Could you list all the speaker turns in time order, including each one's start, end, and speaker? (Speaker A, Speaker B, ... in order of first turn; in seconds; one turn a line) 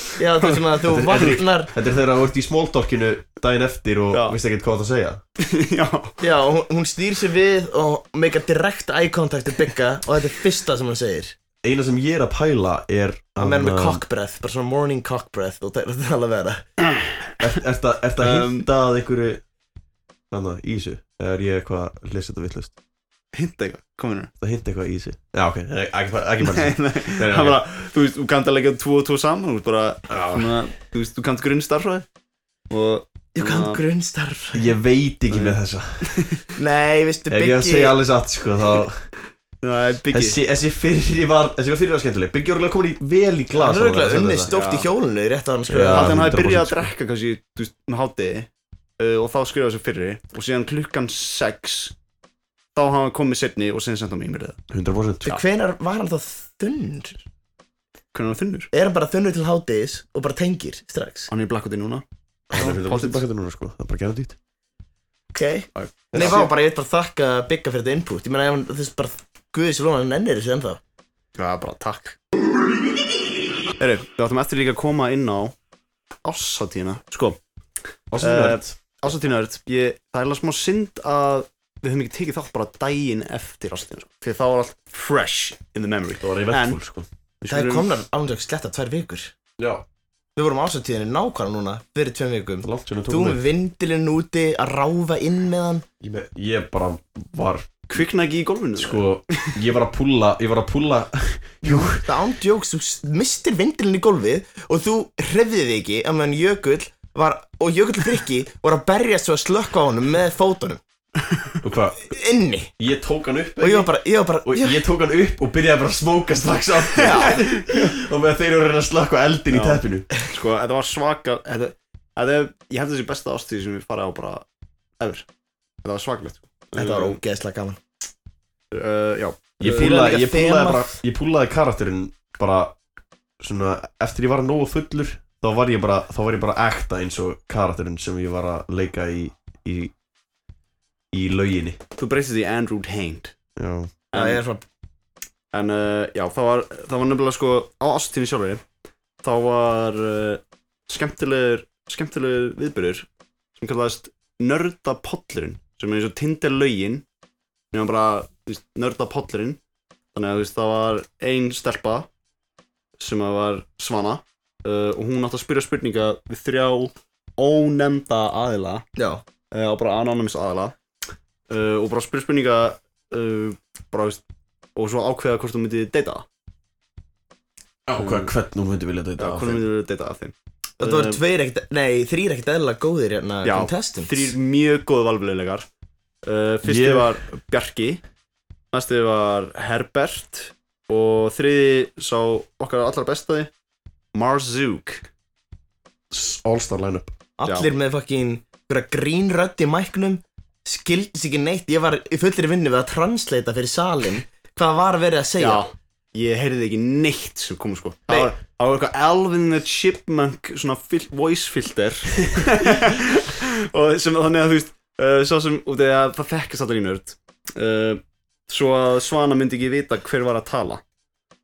Speaker A: 0.2-1.7
Speaker B: 0.4-1.4
Speaker C: 0.9-5.2
Speaker B: 4.1-4.4
Speaker B: 5.4-6.2
Speaker A: 6.2-11.3
Speaker C: 11.6-14.0
Speaker A: 13.4-16.6
Speaker C: 17.4-19.4
Speaker B: 18.2-18.7
Speaker C: 20.3-22.7
Speaker B: 23.3-24.3
Speaker C: 24.4-27.6
Speaker B: 26.4-32.0
Speaker C: 30.1-30.5
Speaker B: 32.7-33.8
Speaker A: 33.4-34.8
Speaker C: 34.5-36.3
Speaker B: 35.3-36.4
Speaker A: 36.6-38.0
Speaker C: 37.3-39.1
Speaker B: 39.6-40.4
Speaker C: 40.1-44.5
Speaker A: 43.5-46.1
Speaker B: 44.5-44.9
Speaker C: 45.7-46.9
Speaker B: 45.7-52.0
Speaker B: 52.8-54.6
Speaker C: 54.7-55.3
Speaker A: 55.2-57.2
Speaker B: 58.1-58.7
Speaker A: 58.7-61.3
Speaker B: 61.3-63.2
Speaker C: 62.5-64.4
Speaker A: 65.3-70.8
Speaker C: 65.8-66.5
Speaker B: 66.2-66.5
Speaker B: 71.4-72.2
Speaker B: 73.8-75.5
Speaker B: 76.2-77.4
Speaker C: 78.1-78.8
Speaker B: 78.2-86.8
Speaker C: 86.2-87.1
Speaker B: 87.4-87.9
Speaker A: 87.5-89.3
Speaker C: 89.6-89.8
Speaker A: 90.4-95.8
Speaker C: 92.6-93.4
Speaker C: 96.0-98.0
Speaker B: 97.9-99.5
Speaker C: 98.8-102.1
Speaker A: 101.7-110.8
Speaker C: 111.6-112.1
Speaker A: 112.1-112.7
Speaker C: 112.8-113.9
Speaker A: 113.6-114.8
Speaker C: 114.5-120.1
Speaker A: 117.0-117.5
Speaker B: 117.0-117.9
Speaker B: 119.5-124.5
Speaker B: 125.0-125.3
Speaker B: 125.8-127.2
Speaker A: 126.8-127.8
Speaker B: 128.7-129.9
Speaker C: 129.6-132.8
Speaker A: 129.6-131.0
Speaker C: 133.4-139.9
Speaker C: 141.1-141.8
Speaker B: 142.0-143.3
Speaker C: 143.6-143.9
Speaker B: 144.1-144.4
Speaker A: 144.1-144.6
Speaker B: 145.5-148.6
Speaker B: 149.2-157.1
Speaker B: 157.7-159.6
Speaker B: 160.1-162.1
Speaker B: 163.0-168.8
Speaker A: 169.0-169.2
Speaker B: 169.5-170.8
Speaker B: 171.5-174.2
Speaker B: 174.8-176.3
Speaker C: 177.9-179.7
Speaker B: 178.0-178.3
Speaker B: 179.2-181.2
Speaker A: 180.8-184.3
Speaker B: 183.4-185.7
Speaker B: 186.2-188.0
Speaker C: 186.6-187.2
Speaker B: 188.7-193.5
Speaker B: 194.1-195.1
Speaker C: 196.1-197.1
Speaker A: 197.4-205.7
Speaker B: 197.4-197.7
Speaker B: 205.4-220.8